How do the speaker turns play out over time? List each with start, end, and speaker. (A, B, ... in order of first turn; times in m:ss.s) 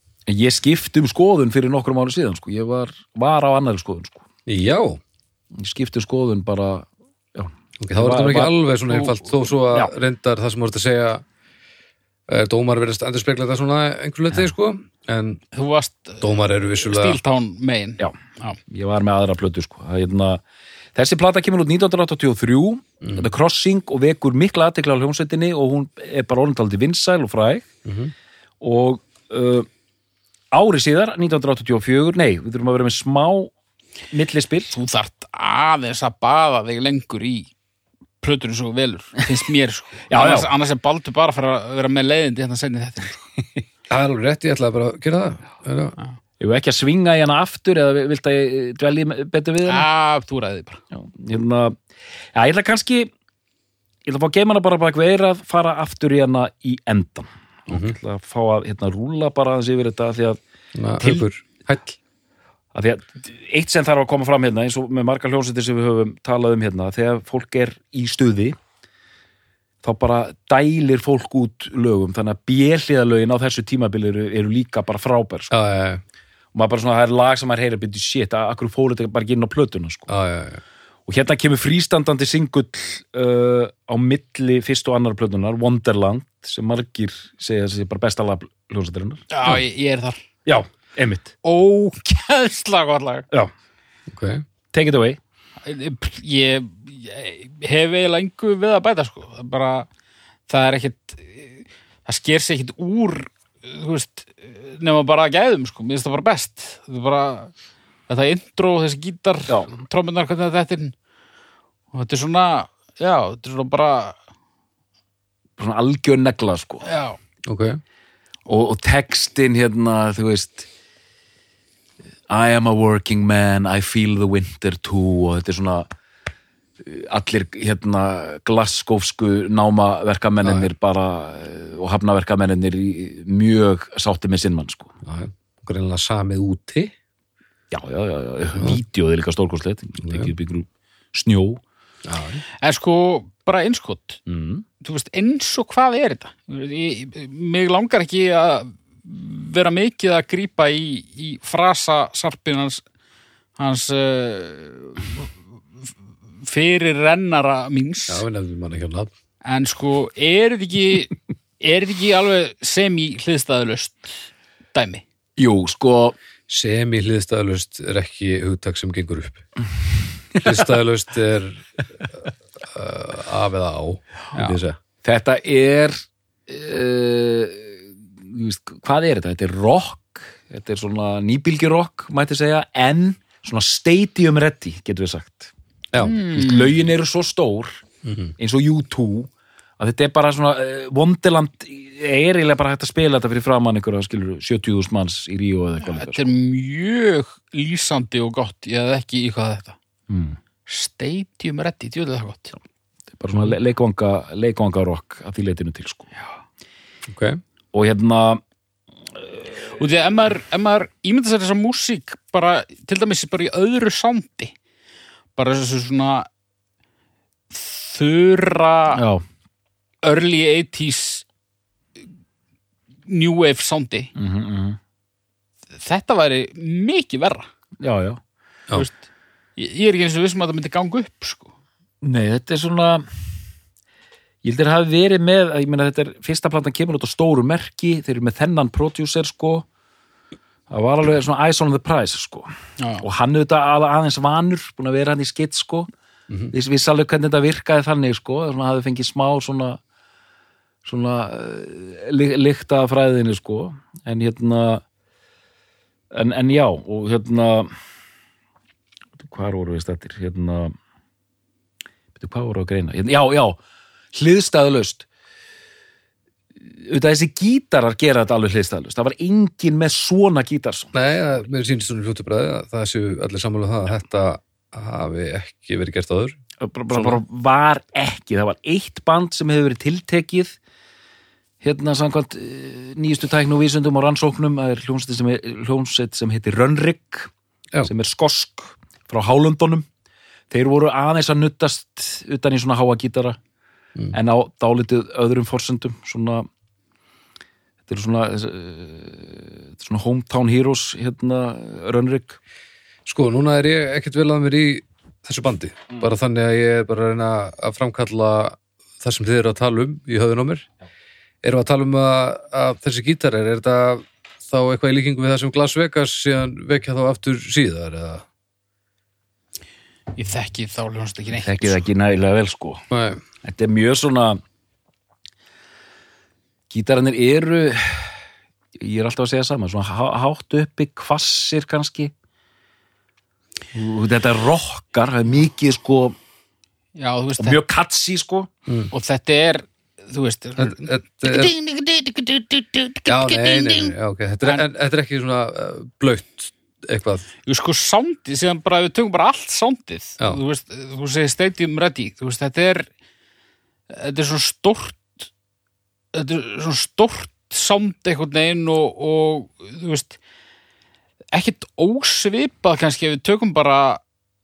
0:00.3-0:04.2 A
0:04.4-0:05.0 B
0:05.5-0:09.1 A
0:07.8-0:11.2 B
0:12.3-0:15.4 B
0:15.5-0:18.6 C
0:16.2-0:17.2 B
0:18.7-0:20.4 A
0:20.9-0:27.7 A
0:27.8-0:28.1 B
0:28.6-0:29.7 A
0:30.5-0:33.5 A
0:34.1-0:34.7 A
0:34.7-0:37.5 C
0:38.2-0:43.2 C
0:40.1-0:40.5 A
0:43.9-0:46.0 B
0:46.4-0:49.9 A
0:49.6-0:50.8 C
0:50.9-0:51.8 A
0:52.3-0:53.1 A
0:54.0-1:00.4 A
0:57.7-0:58.0 B
1:00.7-1:02.0 B
1:01.0-1:01.3 A
1:02.7-1:08.6 A
1:09.8-1:15.5 A
1:15.5-1:16.0 B
1:16.5-1:20.1 A
1:20.1-1:20.6 B
1:21.1-1:29.2 A
1:29.3-1:30.2 C
1:30.4-1:31.4 A
1:31.4-1:33.2 C
1:34.1-1:34.4 B
1:34.7-1:35.2 A
1:35.6-1:39.9 C
1:40.5-1:47.5 C
1:48.1-1:50.9 C
1:51.9-1:54.2 C
1:55.6-1:56.8 A
1:56.8-1:57.2 C
1:57.4-1:57.8 B
1:58.5-2:00.7 A
2:02.3-2:05.9 A
2:06.8-2:14.9 A
2:10.4-2:10.7 B
2:15.0-2:16.9 B
2:17.7-2:21.6 A
2:18.5-2:18.8 B
2:20.0-2:20.3 B
2:22.0-2:22.4 B
2:22.6-2:24.2 C
2:24.3-2:24.6 A
2:24.8-2:32.8 C
2:33.6-2:35.3 C
2:36.4-2:38.2 C
2:38.1-2:39.1 B
2:39.4-2:45.0 C
2:45.4-2:46.1 A
2:46.5-2:49.4 B
2:50.4-2:50.6 A
2:50.4-2:54.8 B
2:54.3-2:54.6 C
2:55.0-3:05.5 A
3:06.0-3:06.8 C
3:06.3-3:07.8 A
3:08.0-3:08.3 B
3:08.4-3:16.3 A
3:15.8-3:19.8 C
3:20.1-3:20.4 A
3:20.7-3:22.6 C
3:23.2-3:26.1 A
3:27.1-3:27.4 B
3:27.7-3:28.4 A
3:29.6-3:34.5 C
3:35.4-3:36.3 C
3:37.5-3:39.0 C
3:38.9-3:39.2 A
3:40.0-3:41.2 C
3:43.1-3:44.1 C
3:44.1-3:44.8 A
3:45.7-3:47.5 C
3:47.8-3:48.2 A
3:49.6-3:51.5 C
3:52.0-3:53.0 A
3:54.4-3:59.6 A
4:00.7-4:05.9 A
4:02.8-4:03.0 C
4:06.5-4:09.8 A
4:10.8-4:14.8 A
4:16.1-4:17.7 A
4:19.2-4:20.7 A
4:22.2-4:23.6 A
4:24.1-4:25.0 A
4:26.6-4:30.9 A
4:30.9-4:36.4 B
4:36.6-4:40.6 A
4:36.9-4:37.2 B
4:41.6-4:47.3 A
4:47.8-4:49.8 A
4:50.5-4:53.4 A
4:54.1-4:56.5 A
4:57.9-5:02.4 A
5:03.0-5:10.7 B
5:11.4-5:18.2 B
5:20.1-5:21.8 C
5:21.4-5:22.8 A
5:22.9-5:23.2 B
5:23.4-5:24.4 A
5:26.7-5:28.2 A
5:28.8-5:32.1 A
5:33.7-5:36.1 A
5:37.0-5:37.6 C
5:37.4-5:38.5 A
5:38.9-5:44.6 C
5:40.6-5:41.5 B
5:43.0-5:47.3 B
5:47.4-5:52.9 C
5:53.9-5:55.2 C
5:56.1-6:00.2 C
6:01.3-6:04.0 C